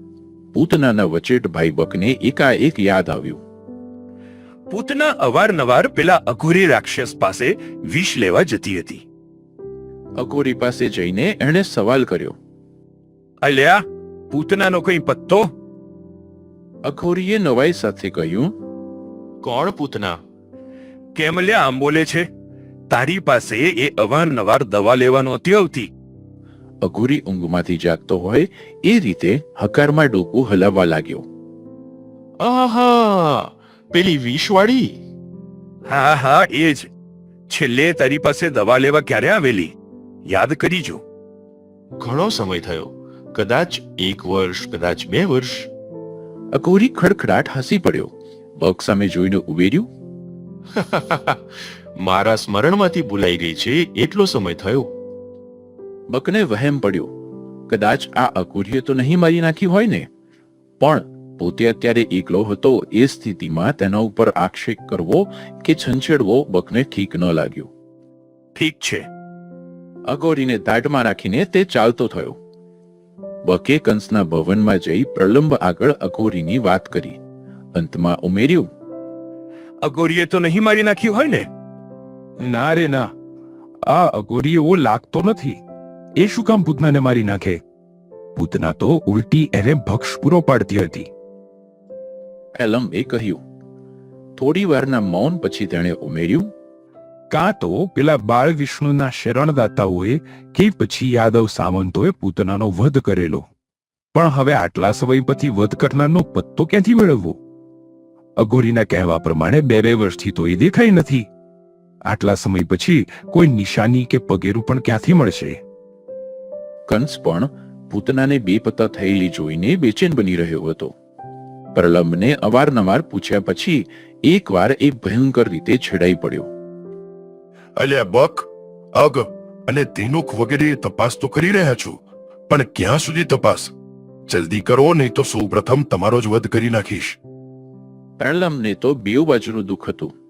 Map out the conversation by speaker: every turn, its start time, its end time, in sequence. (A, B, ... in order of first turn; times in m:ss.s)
0:00.5-0:03.4 A
0:04.7-0:09.0 B
0:10.2-0:12.4 A
0:13.4-0:15.5 B
0:16.9-0:18.5 A
0:19.4-0:20.2 C
0:21.2-0:22.3 B
0:22.9-0:25.9 B
0:26.8-0:31.2 A
0:32.4-0:35.0 C
0:35.9-0:36.9 B
0:37.5-0:39.7 B
0:40.3-0:41.0 B
0:42.0-0:45.7 C
0:46.5-0:49.9 A
0:50.8-0:51.4 C
0:52.0-0:54.9 C
0:56.1-0:57.1 A
0:57.7-1:00.1 A
1:00.8-1:07.7 A
1:08.6-1:09.1 B
1:10.1-1:12.4 A
1:13.4-1:17.2 A
1:17.8-1:18.7 A
1:19.8-1:21.5 B
1:22.4-1:23.1 B
1:23.9-1:25.6 B
1:26.2-1:27.6 B
1:28.4-1:31.1 B
1:32.6-1:33.4 A
1:34.4-1:36.5 A
1:37.3-1:43.5 B
1:44.1-1:47.4 B
1:48.4-1:51.3 B
1:52.1-1:55.6 B
1:56.9-2:00.9 A
2:01.7-2:06.5 A
2:07.8-2:13.7 D
2:14.3-2:17.2 D
2:18.2-2:20.1 A